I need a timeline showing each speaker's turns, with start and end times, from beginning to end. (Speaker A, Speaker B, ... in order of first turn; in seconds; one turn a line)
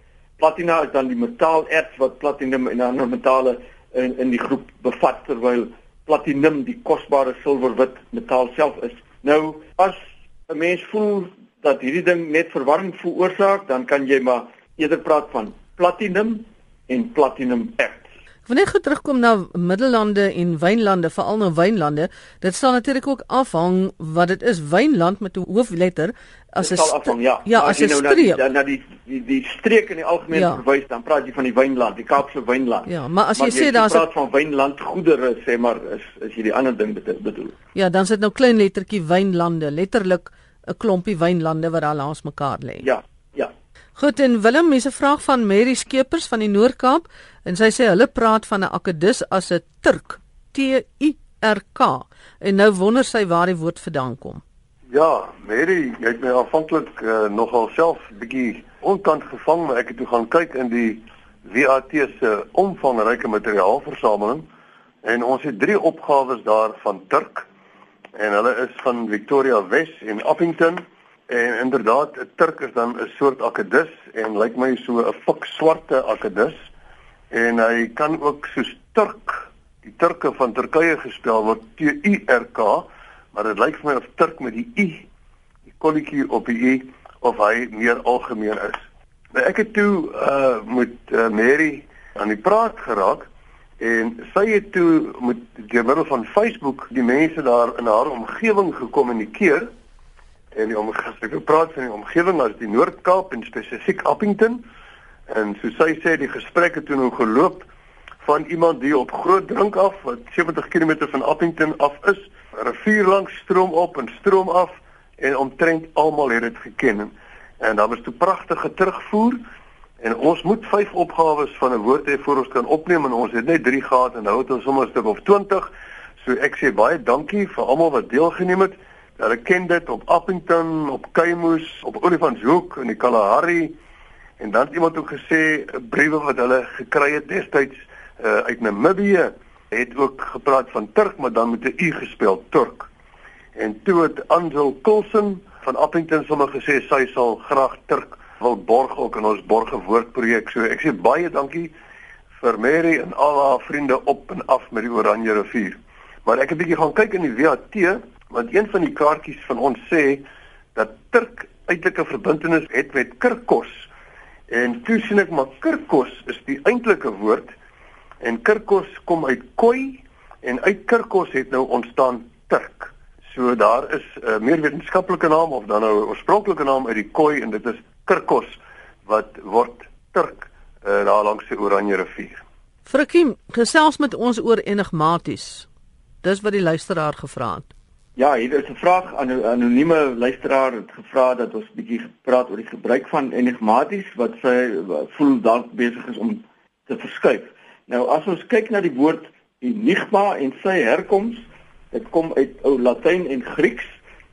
Speaker A: 0.4-18.1
Speaker B: 18.5-28.4
Speaker A: 26.6-37.6
Speaker B: 30.3-30.6
Speaker B: 32.9-34.1
Speaker B: 37.8-42.9
Speaker A: 42.8-43.5
Speaker B: 44.0-54.4
Speaker C: 54.9-64.5
Speaker C: 65.0-67.5
Speaker C: 68.2-76.5
Speaker C: 77.3-85.1
Speaker C: 85.7-93.3
Speaker C: 93.8-99.7
Speaker C: 100.5-104.6
Speaker C: 105.3-107.7
Speaker C: 108.2-119.4
Speaker C: 120.0-133.8
Speaker C: 134.4-142.9
Speaker C: 143.6-151.7
Speaker C: 152.3-163.9
Speaker C: 164.5-167.5
Speaker C: 168.2-182.4
Speaker B: 182.9-185.7
Speaker B: 186.2-187.7
Speaker A: 188.2-203.9